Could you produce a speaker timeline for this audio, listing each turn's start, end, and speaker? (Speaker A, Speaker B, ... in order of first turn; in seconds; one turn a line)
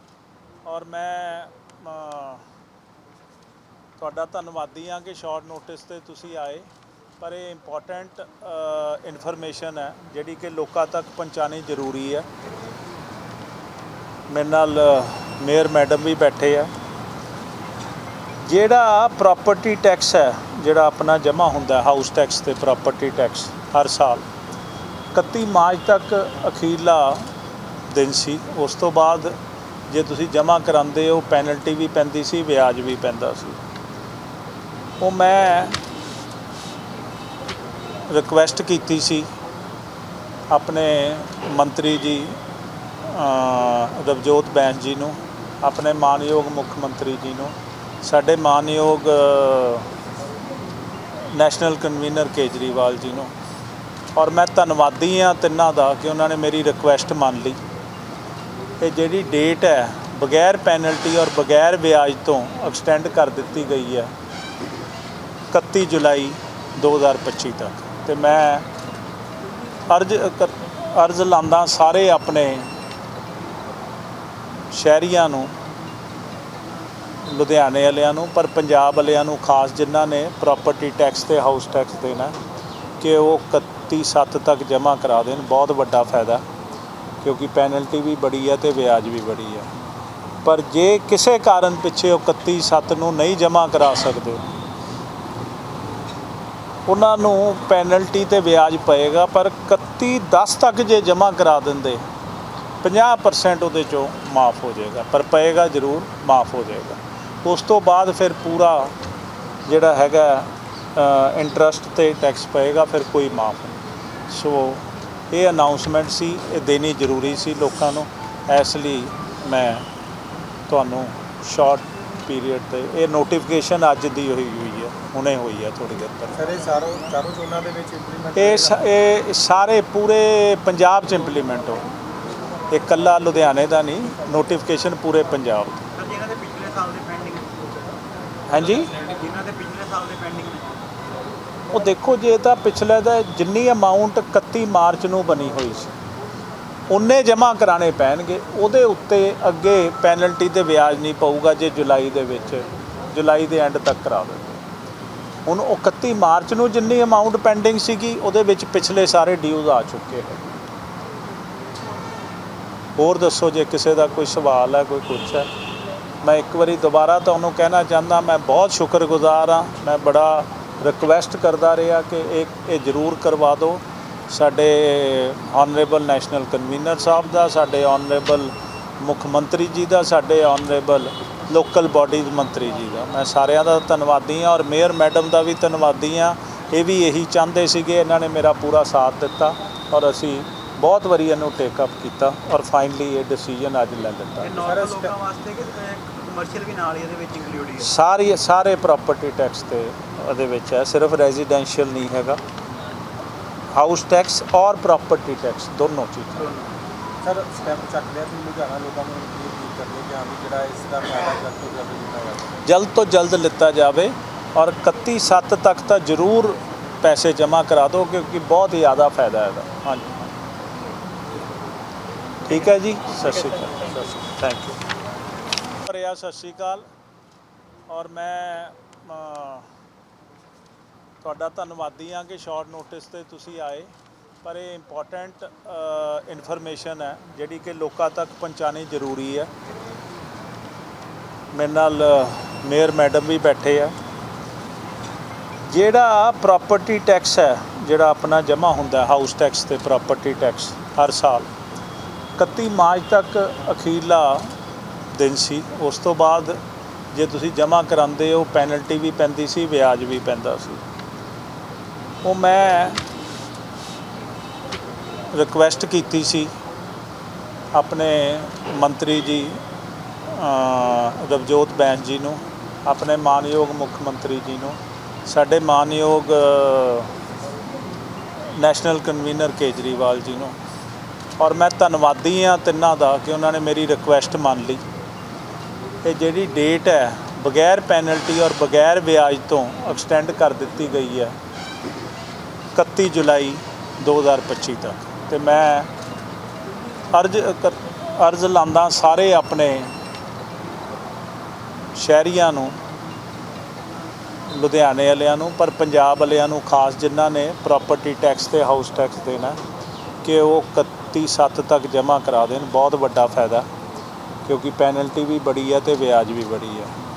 Speaker A: 0.6-2.4
Speaker A: 4.0-6.7
Speaker A: 7.2-12.3
Speaker A: 14.3-16.7
Speaker A: 18.4-24.2
Speaker A: 25.1-27.3
Speaker A: 27.9-29.4
Speaker A: 29.9-33.6
Speaker A: 35.0-35.8
Speaker A: 38.1-39.3
Speaker A: 40.5-42.4
Speaker A: 43.0-49.9
Speaker A: 51.3-53.3
Speaker A: 54.1-57.6
Speaker A: 58.8-64.1
Speaker A: 65.5-68.7
Speaker A: 69.9-72.7
Speaker A: 74.7-75.5
Speaker A: 77.2-82.3
Speaker A: 83.0-86.4
Speaker A: 87.2-89.7
Speaker A: 90.4-94.5
Speaker A: 96.9-102.0
Speaker A: 102.8-108.9
Speaker A: 109.7-119.9
Speaker A: 120.7-126.4
Speaker B: 126.3-128.8
Speaker A: 128.3-131.8
Speaker A: 132.7-135.8
Speaker C: 135.9-137.6
Speaker A: 138.5-138.9
Speaker C: 138.6-140.8
Speaker A: 141.7-145.9
Speaker A: 146.9-154.6
Speaker A: 155.4-160.5
Speaker A: 163.0-165.5
Speaker A: 166.2-194.6
Speaker C: 194.4-197.9
Speaker B: 194.6-195.1
Speaker A: 197.8-202.4
Speaker A: 203.7-206.5
Speaker C: 206.4-206.8
Speaker B: 207.2-212.6
Speaker A: 212.6-220.3
Speaker A: 222.4-224.8
Speaker A: 225.8-226.8
Speaker A: 227.9-229.7
Speaker A: 231.2-233.9
Speaker A: 234.4-239.5
Speaker A: 241.5-243.9
Speaker A: 245.7-251.5
Speaker A: 252.4-254.5
Speaker A: 255.1-256.6
Speaker A: 257.1-260.8
Speaker A: 262.2-263.0
Speaker A: 265.3-266.5
Speaker A: 267.7-269.6
Speaker A: 270.3-277.1
Speaker A: 278.5-280.6
Speaker A: 281.4-284.8
Speaker A: 286.0-291.4
Speaker A: 292.7-295.9
Speaker A: 297.1-299.9
Speaker A: 301.9-302.8
Speaker A: 304.5-309.6
Speaker A: 310.2-313.7
Speaker A: 314.4-316.9